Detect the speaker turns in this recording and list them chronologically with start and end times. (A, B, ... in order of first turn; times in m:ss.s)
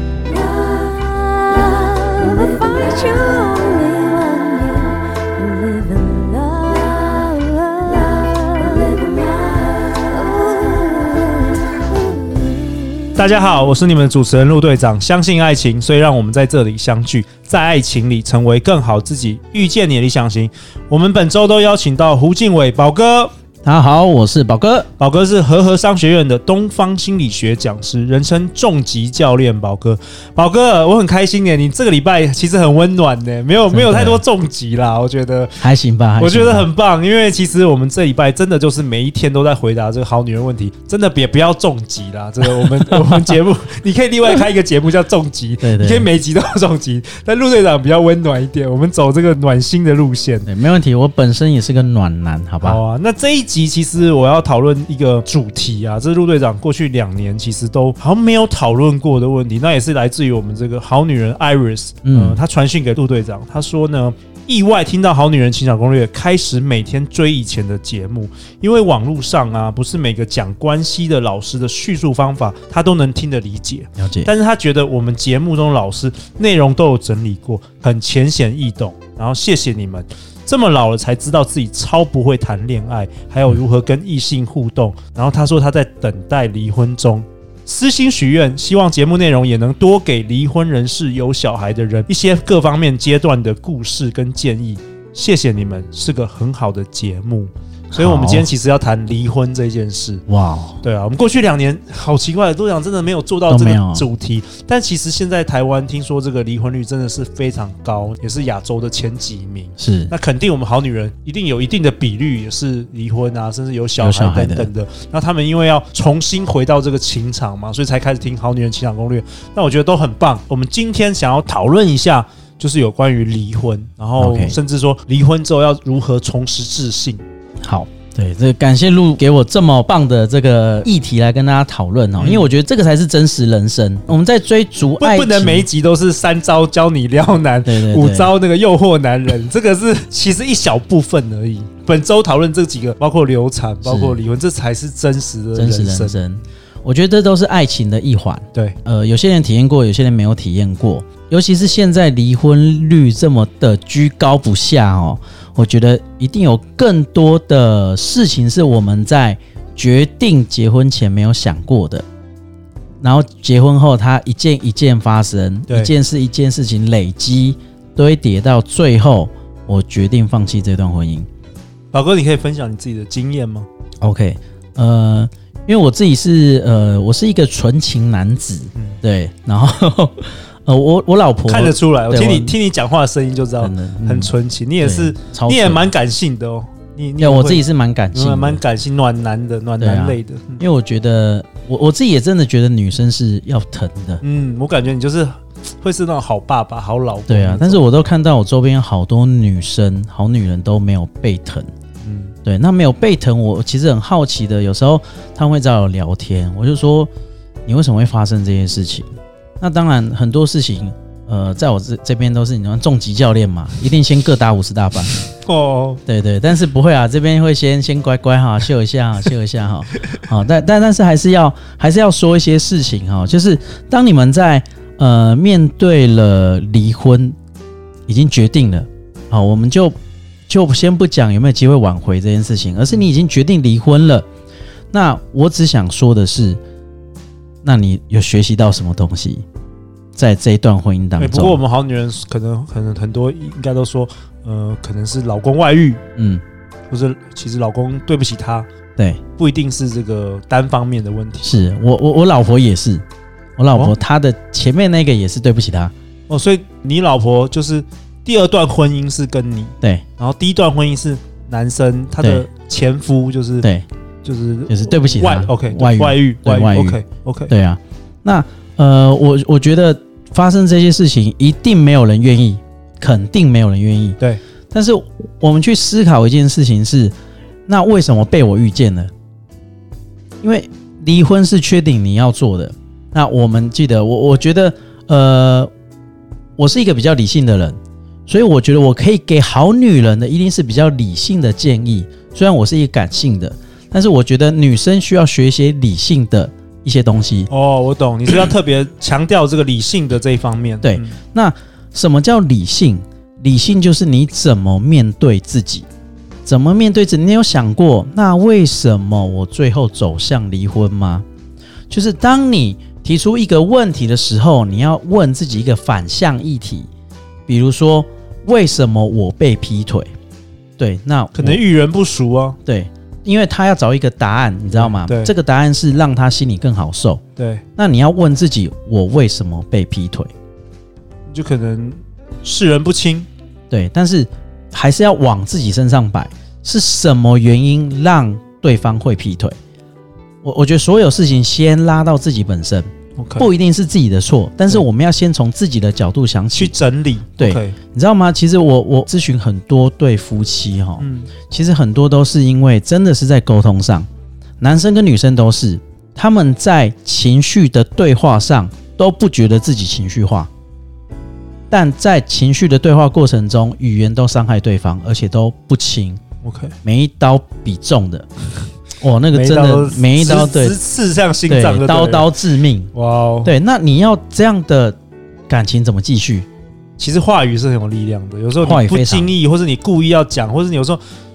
0:00.6-0:11.4 A
0:12.4-0:12.8 A
0:13.1-0:23.3 B
0:23.6-0:24.9 C
0:25.0-0:35.7 B
0:33.7-0:34.2 C
0:35.6-0:36.7 C
0:36.2-0:50.5 B
0:42.6-0:43.2 C
0:45.6-0:46.1 C
0:50.4-0:52.8 C
0:52.6-1:40.2 B
1:02.0-1:02.4 C
1:14.0-1:14.3 C
1:37.9-1:38.5 C
1:40.3-1:40.8 C
1:40.8-2:07.2 B
1:43.5-1:44.0 C
1:49.8-1:50.1 C
1:54.0-1:54.7 C
2:04.2-2:04.6 C
2:07.6-2:15.7 C
2:12.2-2:12.5 B
2:15.0-2:26.2 B
2:17.6-2:18.3 C
2:23.8-2:24.2 C
2:25.5-2:42.0 C
2:43.0-2:51.3 C
2:45.7-2:45.9 B
2:51.9-2:53.7 B
2:54.0-3:02.6 C
2:58.7-2:59.0 B
3:01.5-3:07.6 B
3:03.6-3:05.9 C
3:07.2-3:08.6 C
3:08.1-3:10.6 B
3:09.8-3:14.2 C
3:14.2-3:17.8 B
3:17.3-3:21.7 C
3:22.0-3:22.3 B
3:22.4-3:27.1 C
3:27.6-3:29.1 C
3:29.6-3:35.1 C
3:35.4-3:36.0 B
3:36.0-3:47.4 C
3:48.1-3:49.9 C
3:50.5-3:54.2 C
3:54.9-3:56.6 C
3:57.6-3:59.4 C
4:00.2-4:01.6 C
4:01.2-4:06.0 B
4:06.2-4:06.4 C
4:06.9-4:08.7 B
4:09.4-4:11.6 B
4:11.4-4:13.0 C
4:13.6-4:15.9 C
4:16.3-4:23.7 B
4:22.2-4:22.4 C
4:23.6-4:23.9 C
4:24.2-4:27.5 B
4:24.7-4:34.2 C
4:34.7-4:37.1 C
4:37.7-4:39.1 C
4:40.4-4:45.7 C
4:46.6-4:57.5 C
4:57.5-5:01.2 B
5:00.8-5:05.9 C
5:06.4-5:11.2 C
5:11.9-5:16.9 C
5:17.5-5:20.1 C
5:20.8-5:21.6 C
5:21.3-5:22.6 B
5:22.6-5:27.2 C
5:24.7-5:25.3 B
5:27.4-5:27.6 B
5:27.8-5:30.3 C
5:31.3-5:33.3 B
5:33.7-5:39.6 C
5:40.4-5:46.7 C
5:43.2-5:43.5 B
5:46.5-5:47.8 B
5:47.4-5:54.1 C
5:51.0-5:51.3 B
5:54.6-6:00.5 C
6:01.7-6:06.2 C
6:06.4-6:06.8 B
6:06.8-6:08.3 C
6:09.0-6:10.8 C
6:09.3-6:12.3 B
6:11.5-6:12.9 C
6:12.9-6:13.5 B
6:13.4-6:15.0 C
6:15.5-6:16.5 C
6:17.0-6:21.0 B
6:18.6-6:19.3 C